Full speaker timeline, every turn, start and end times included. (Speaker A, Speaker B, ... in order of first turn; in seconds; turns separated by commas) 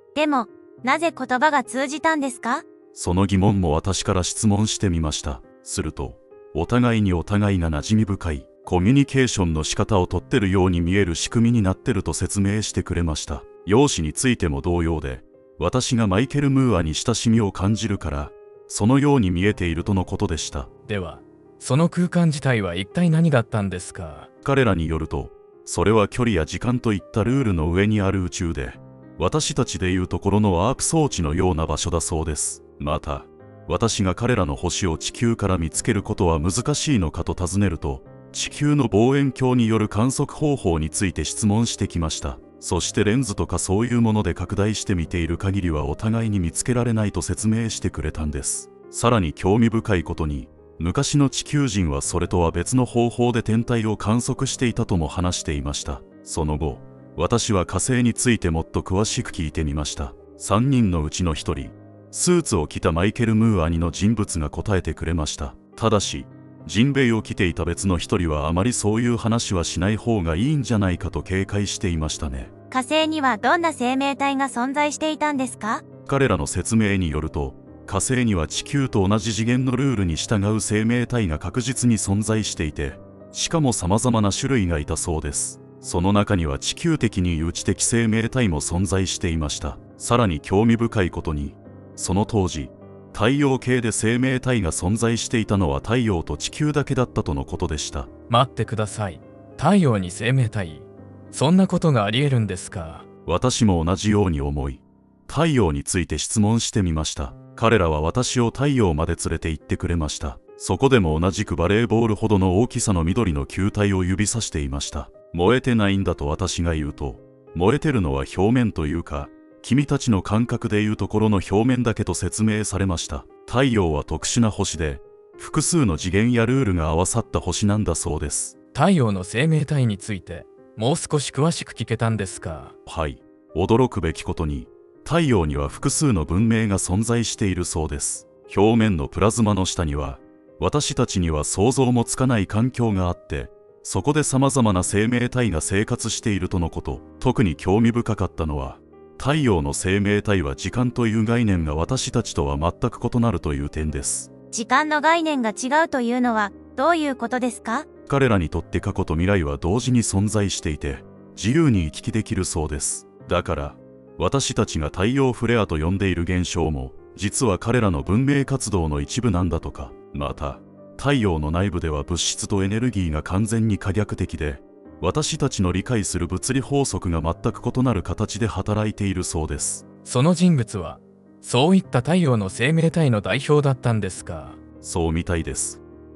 Speaker A: 0.1-2.6, Speaker B: 2.9-20.7, Speaker C: 20.9-24.3, Speaker B: 24.4-72.5, Speaker A: 72.7-75.8, Speaker B: 76.1-98.1, Speaker C: 98.3-103.1, Speaker B: 103.3-128.6, Speaker C: 128.7-132.8, Speaker B: 132.9-154.3, Speaker A: 154.5-157.9, Speaker B: 158.1-179.8, Speaker C: 180.0-184.6, Speaker B: 184.8-185.8